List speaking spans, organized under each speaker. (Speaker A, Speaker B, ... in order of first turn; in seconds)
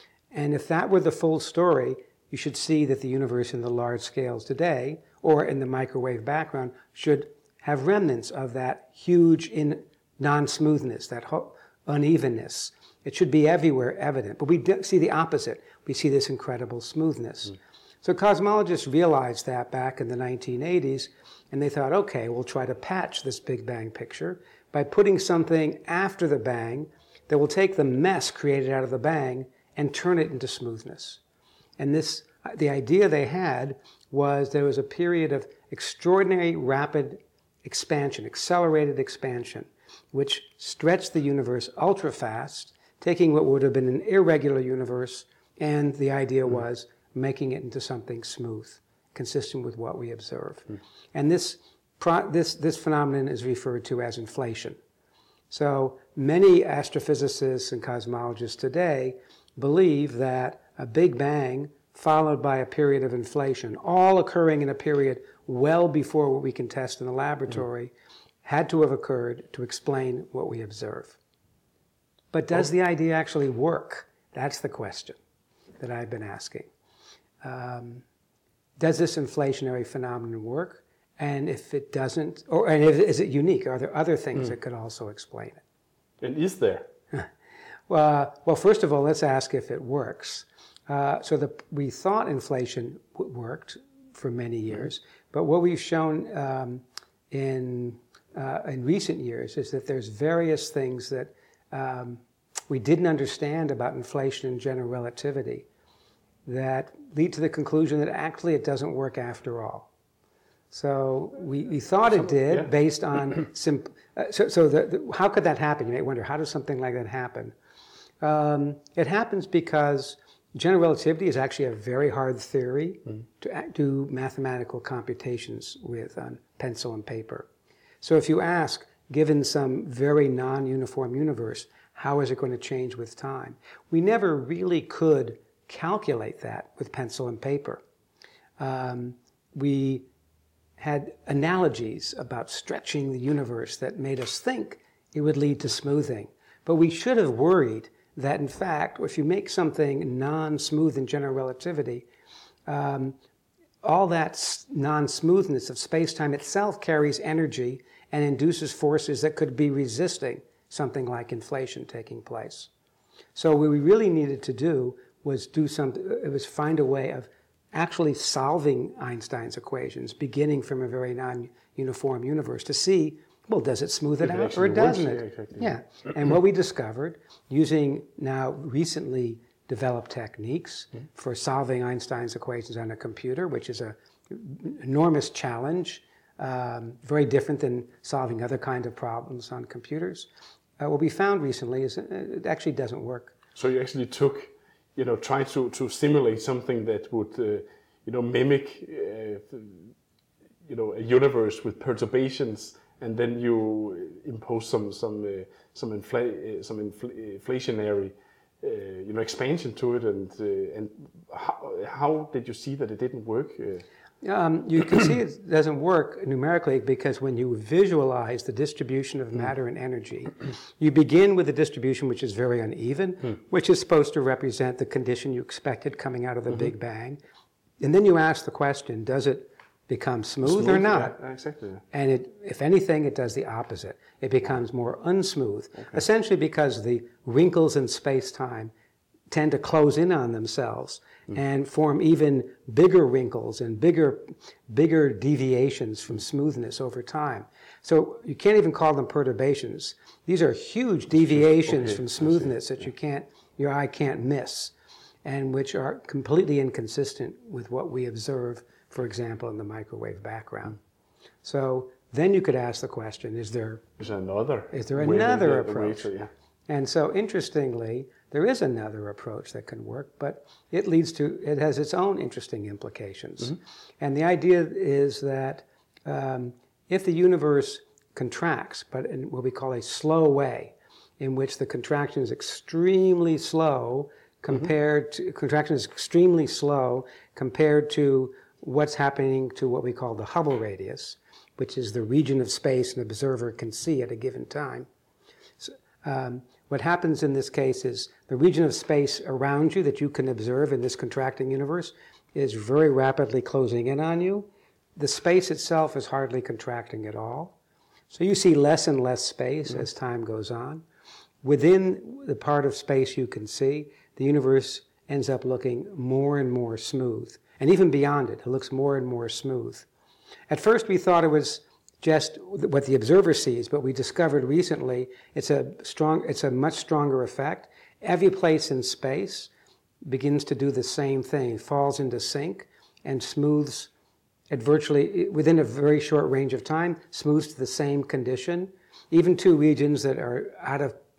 Speaker A: 0.3-31.2, 31.8-54.8, 55.5-67.9, 68.4-71.2, 72.3-75.2, 75.8-76.7, 77.4-78.0, 78.8-85.6, 87.9-105.7, 106.5-109.9, 110.7-117.5, 118.2-127.5, 128.0-137.8, 138.6-140.1, 140.8-152.1, 152.7-153.2, 153.8-162.7, 163.3-190.3, 190.8-193.4, 214.2-227.2, 227.8-231.2, 231.9-238.7, 239.3-254.7, 255.2-260.8, 261.4-263.9, 264.7-266.1, 266.7-294.9, 295.6-307.6, 308.1-310.8, 311.4-319.9, 320.5-329.5, 330.1-333.9, 334.5-341.0
Speaker B: 86.2-86.9, 174.2-175.7, 193.6-199.9, 200.7-213.8, 230.4-231.8, 251.7-252.4, 264.0-266.3